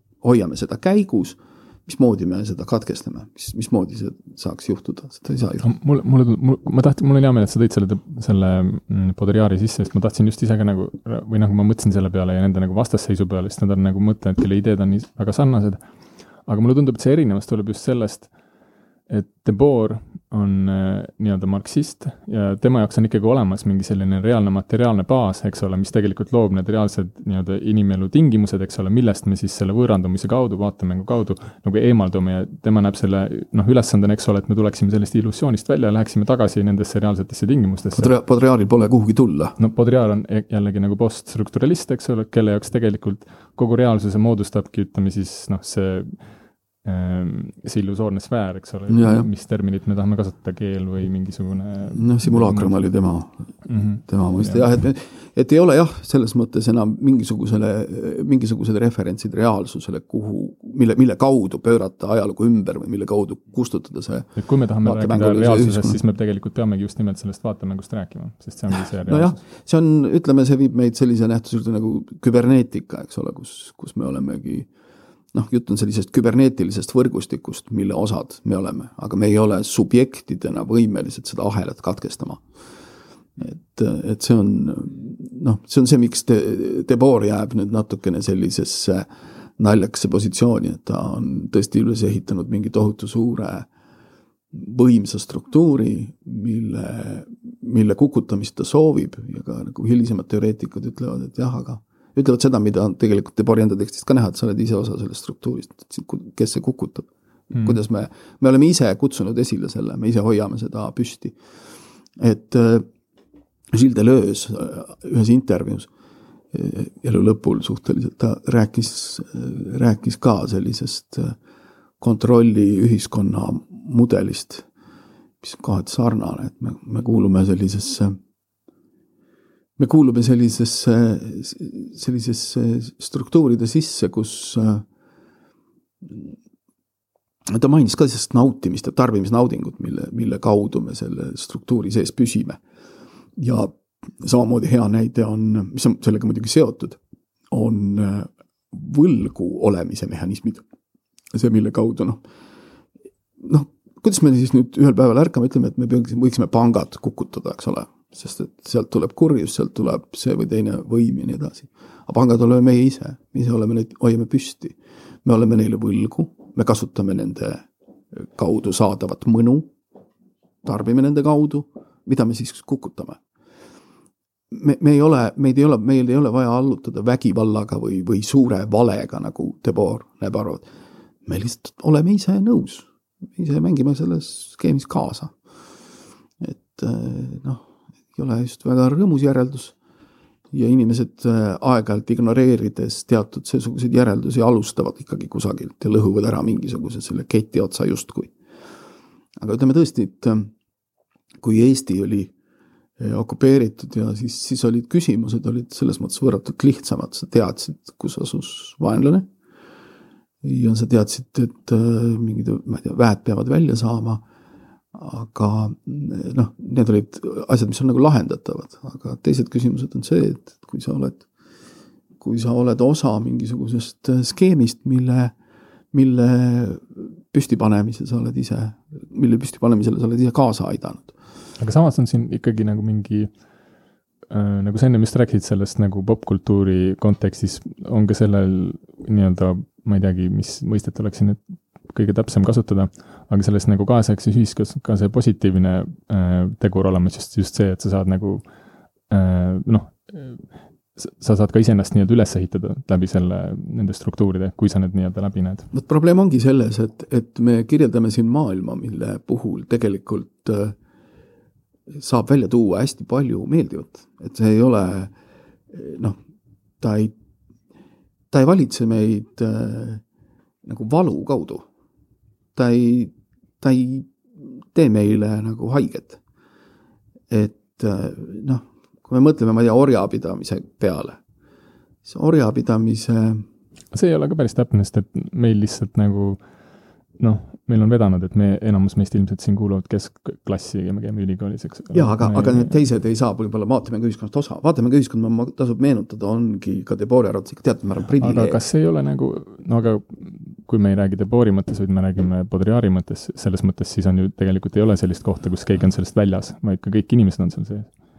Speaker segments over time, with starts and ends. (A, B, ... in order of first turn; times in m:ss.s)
0:00.2-0:05.7 A
0:05.6-0:18.4 B
0:19.1-0:38.1 B
0:37.9-0:39.6 A
0:39.6-0:52.8 B
0:48.9-0:49.3 A
0:51.9-0:53.4 A
0:53.6-0:54.6 B
0:54.1-1:06.0 A
1:04.4-1:09.4 B
1:09.1-1:14.7 A
1:15.3-1:22.4 A
1:23.4-1:33.7 A
1:34.5-1:51.4 A
1:52.2-1:52.9 A
1:53.7-1:55.9 A
1:56.5-2:01.4 A
2:02.0-2:04.6 A
2:05.4-2:08.2 A
2:09.8-2:14.8 A
2:16.0-2:16.3 A
2:17.5-2:22.6 A
2:23.4-2:27.0 A
2:27.5-2:30.6 A
2:31.3-2:32.2 A
2:33.4-2:49.7 A
2:50.6-2:53.2 A
2:54.5-3:00.7 A
3:01.3-3:05.3 A
3:06.4-3:09.8 A
3:10.5-3:18.3 A
3:19.4-3:20.5 A
3:21.4-3:22.3 A
3:23.0-3:29.3 A
3:30.4-3:34.2 A
3:34.9-3:41.2 A
3:42.2-3:45.3 A
3:45.9-3:51.1 A
3:51.6-3:53.5 B
3:54.3-4:15.7 B
4:15.7-4:20.8 A
4:21.9-4:25.1 A
4:25.7-4:26.2 A
4:26.8-4:27.2 A
4:28.3-4:30.0 A
4:30.6-4:31.7 A
4:32.6-4:36.2 A
4:37.3-4:41.2 A
4:42.0-4:43.5 A
4:43.9-4:46.5 B
4:47.2-4:52.7 B
4:51.9-4:58.6 A
4:58.2-5:07.9 B